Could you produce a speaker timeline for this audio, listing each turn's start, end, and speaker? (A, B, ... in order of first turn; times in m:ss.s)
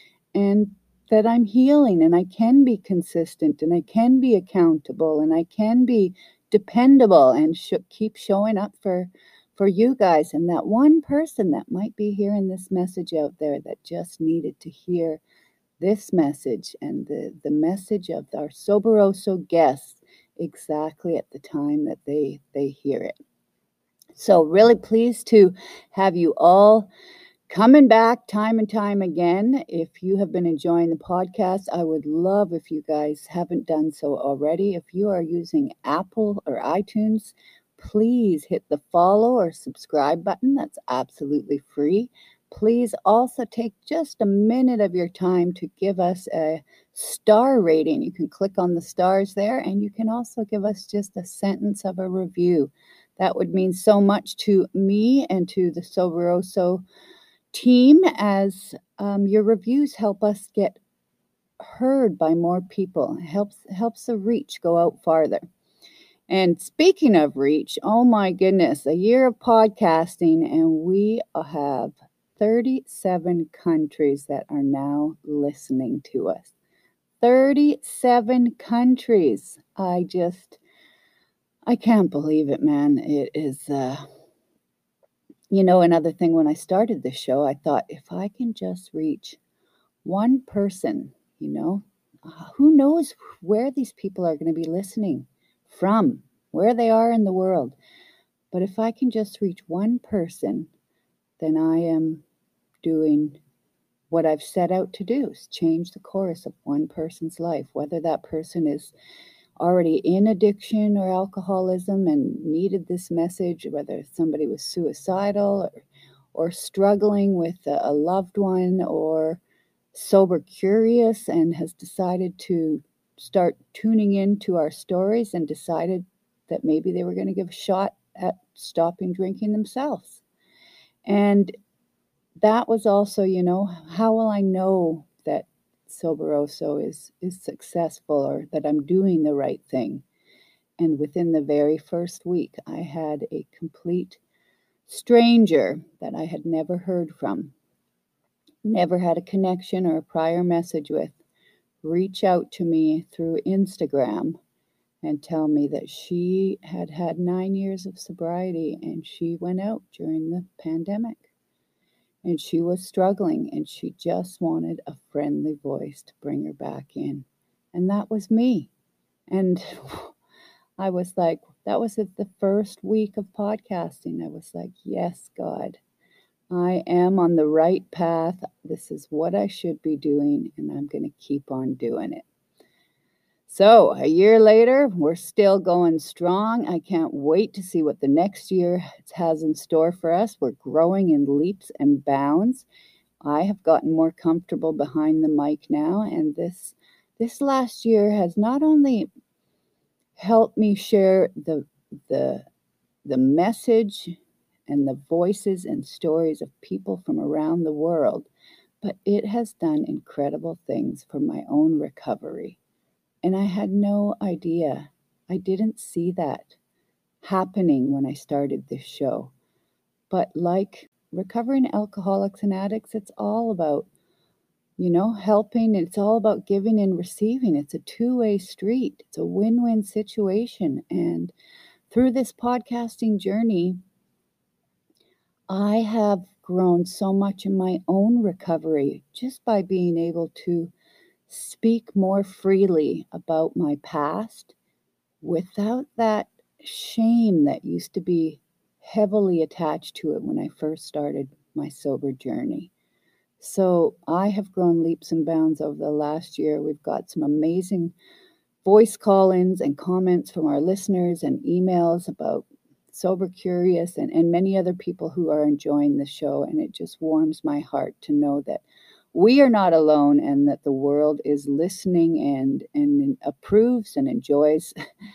0:00.3-0:15.2 A
0:15.8-0:23.2 A
0:24.1-0:26.9 A
0:27.5-0:56.8 A
0:57.5-1:00.8 A
1:01.6-1:05.4 A
1:06.3-1:16.5 A
1:17.2-1:20.6 A
1:21.6-1:24.0 A
1:25.5-1:29.4 A
1:30.0-1:37.8 A
1:38.5-1:40.7 A
1:41.4-1:42.2 A
1:42.8-1:43.4 A
1:44.1-1:48.9 A
1:49.6-1:55.8 A
1:56.3-1:59.4 A
1:59.9-2:10.2 A
2:11.0-2:11.5 A
2:12.4-2:20.0 A
2:20.8-2:24.2 A
2:24.9-2:27.5 A
2:28.6-2:31.2 A
2:31.8-2:34.4 A
2:35.0-2:41.3 A
2:42.2-2:48.7 A
2:49.3-2:50.2 A
2:50.8-2:55.8 A
2:56.5-3:02.2 A
3:03.5-3:12.6 A
3:13.2-3:19.1 A
3:20.2-3:22.5 A
3:23.0-3:28.3 A
3:28.8-3:32.6 A
3:33.2-3:36.6 A
3:37.2-3:39.3 A
3:40.1-3:43.9 A
3:44.8-3:51.3 A
3:51.9-3:53.8 A
3:55.5-4:00.7 A
4:01.3-4:04.5 A
4:05.2-4:12.7 A
4:13.4-4:17.9 A
4:18.6-4:34.7 A